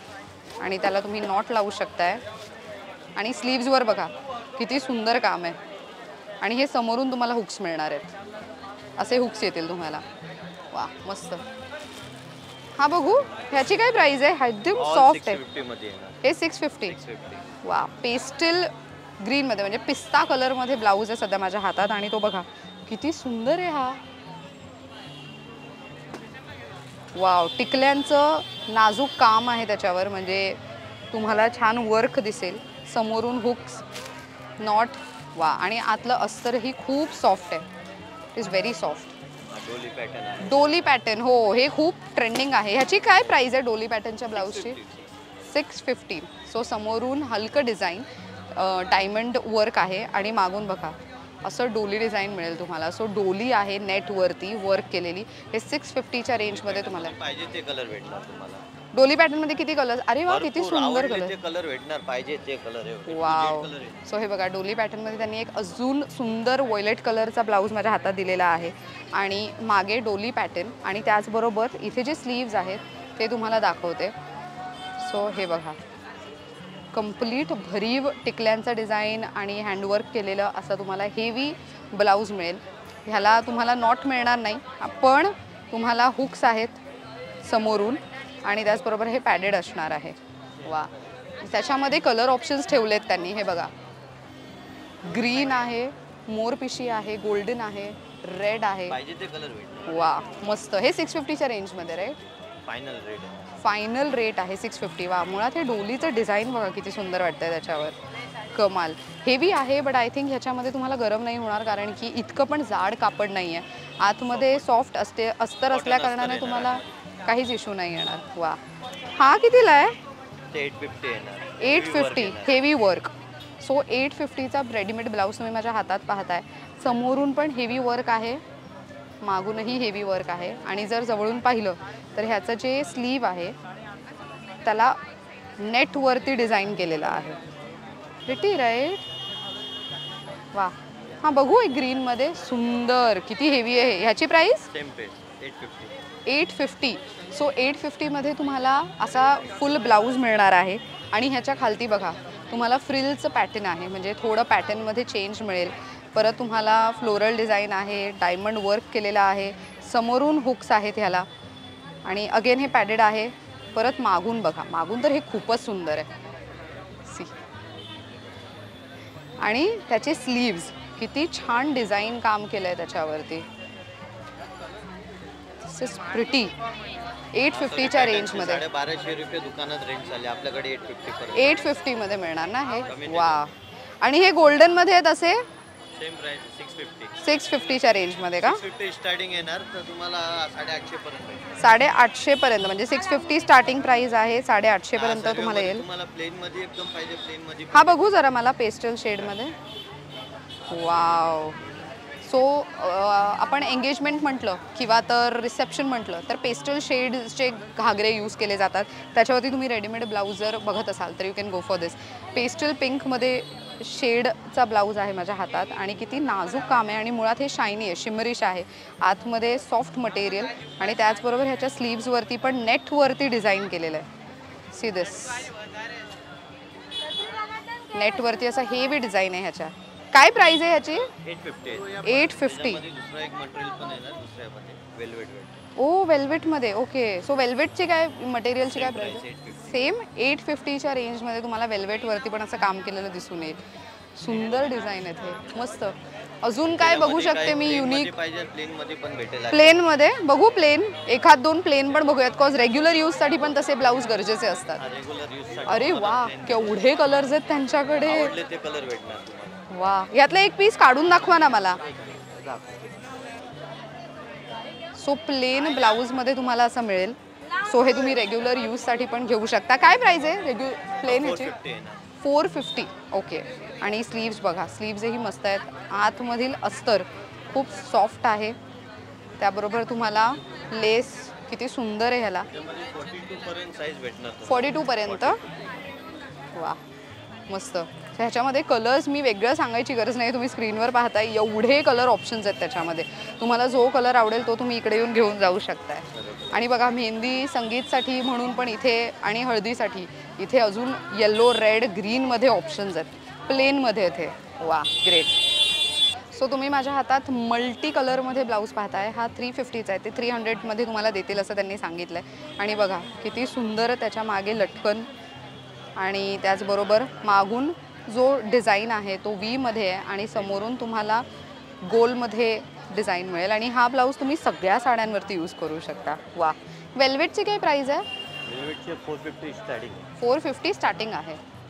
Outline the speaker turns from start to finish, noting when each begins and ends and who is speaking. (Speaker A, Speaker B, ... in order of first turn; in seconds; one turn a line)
Speaker A: 0.6-2.2
Speaker A: 3.2-5.6
Speaker A: 6.4-8.1
Speaker A: 9.0-10.0
Speaker A: 10.7-11.4
Speaker A: 12.8-15.4
Speaker B: 13.0-13.8
Speaker B: 14.8-16.2
Speaker A: 16.2-17.0
Speaker B: 16.9-17.5
Speaker A: 17.6-24.0
Speaker A: 27.1-30.6
Speaker A: 31.1-33.9
Speaker A: 34.6-37.7
Speaker A: 38.4-39.1
Speaker B: 39.5-40.8
Speaker A: 40.4-44.8
Speaker B: 44.4-45.1
Speaker A: 45.5-57.1
Speaker B: 56.4-58.6
Speaker A: 58.9-61.4
Speaker B: 60.3-64.0
Speaker A: 63.1-74.2
Speaker A: 75.0-75.8
Speaker A: 76.9-86.8
Speaker A: 87.4-93.7
Speaker A: 95.0-99.0
Speaker B: 98.9-100.0
Speaker A: 99.9-102.2
Speaker B: 102.7-103.5
Speaker A: 103.6-108.0
Speaker A: 108.5-118.6
Speaker B: 114.3-114.9
Speaker B: 115.7-117.0
Speaker A: 119.1-120.0
Speaker B: 120.5-122.6
Speaker A: 121.6-128.4
Speaker A: 129.2-133.6
Speaker A: 134.7-135.0
Speaker A: 135.6-137.4
Speaker A: 138.3-139.1
Speaker A: 140.5-144.7
Speaker B: 144.7-145.9
Speaker A: 146.3-161.3
Speaker A: 162.1-166.1
Speaker A: 167.1-167.3
Speaker A: 169.4-173.5
Speaker A: 175.7-176.5
Speaker A: 177.3-178.6
Speaker B: 177.5-181.7
Speaker A: 181.3-185.4
Speaker B: 182.9-183.5
Speaker B: 185.9-187.2
Speaker A: 187.2-188.6
Speaker B: 188.3-191.6
Speaker A: 191.6-195.8
Speaker B: 194.9-198.1
Speaker A: 197.7-199.6
Speaker A: 200.7-201.6
Speaker A: 202.2-224.1
Speaker A: 224.7-225.5
Speaker A: 227.9-231.1
Speaker B: 231.2-235.6
Speaker A: 232.0-232.8
Speaker A: 235.8-243.6
Speaker B: 238.7-239.9
Speaker A: 244.2-248.2
Speaker B: 246.7-249.8
Speaker A: 249.5-254.8
Speaker B: 254.8-257.0
Speaker A: 255.7-258.3
Speaker B: 258.0-259.6
Speaker A: 259.7-261.8
Speaker B: 261.9-263.0
Speaker A: 265.0-271.6
Speaker B: 271.0-272.0
Speaker A: 272.2-278.6
Speaker A: 279.4-282.5
Speaker B: 282.5-285.7
Speaker A: 284.5-285.4
Speaker A: 286.5-286.8
Speaker A: 287.5-305.4
Speaker B: 296.1-296.7
Speaker A: 306.3-315.1
Speaker A: 316.0-321.2
Speaker A: 321.8-328.1
Speaker B: 328.4-330.1
Speaker A: 330.2-331.4